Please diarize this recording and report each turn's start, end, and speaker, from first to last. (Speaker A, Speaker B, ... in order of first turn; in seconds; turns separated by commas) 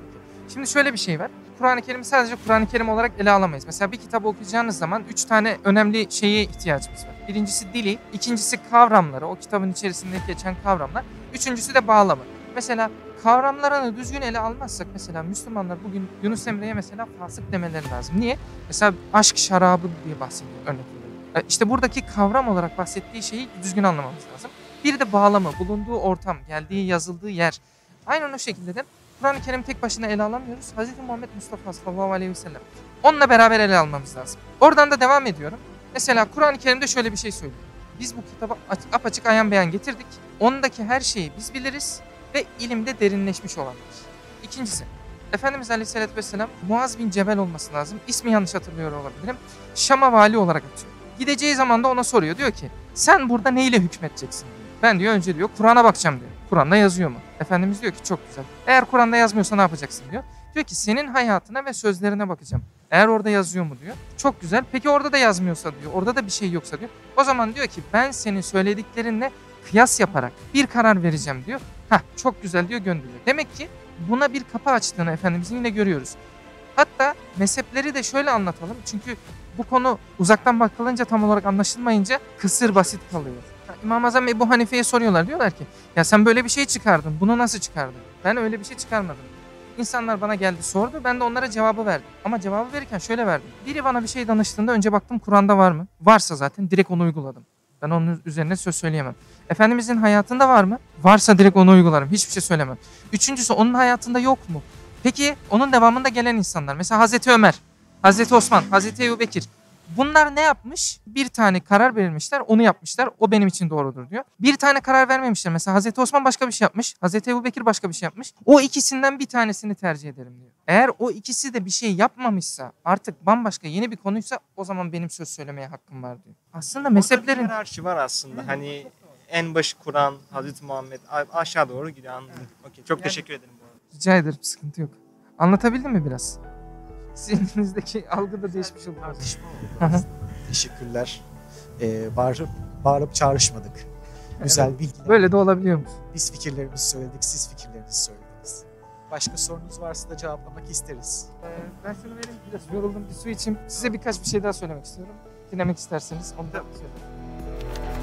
Speaker A: 0.5-76.2, Speaker A: 76.8-127.5, Speaker B: 127.0-133.8, Speaker A: 133.9-136.4, Speaker A: 137.2-139.2, Speaker C: 138.9-141.2, Speaker C: 141.8-143.9, Speaker C: 144.4-145.3, Speaker A: 144.4-146.0, Speaker C: 146.1-151.3, Speaker A: 151.5-157.0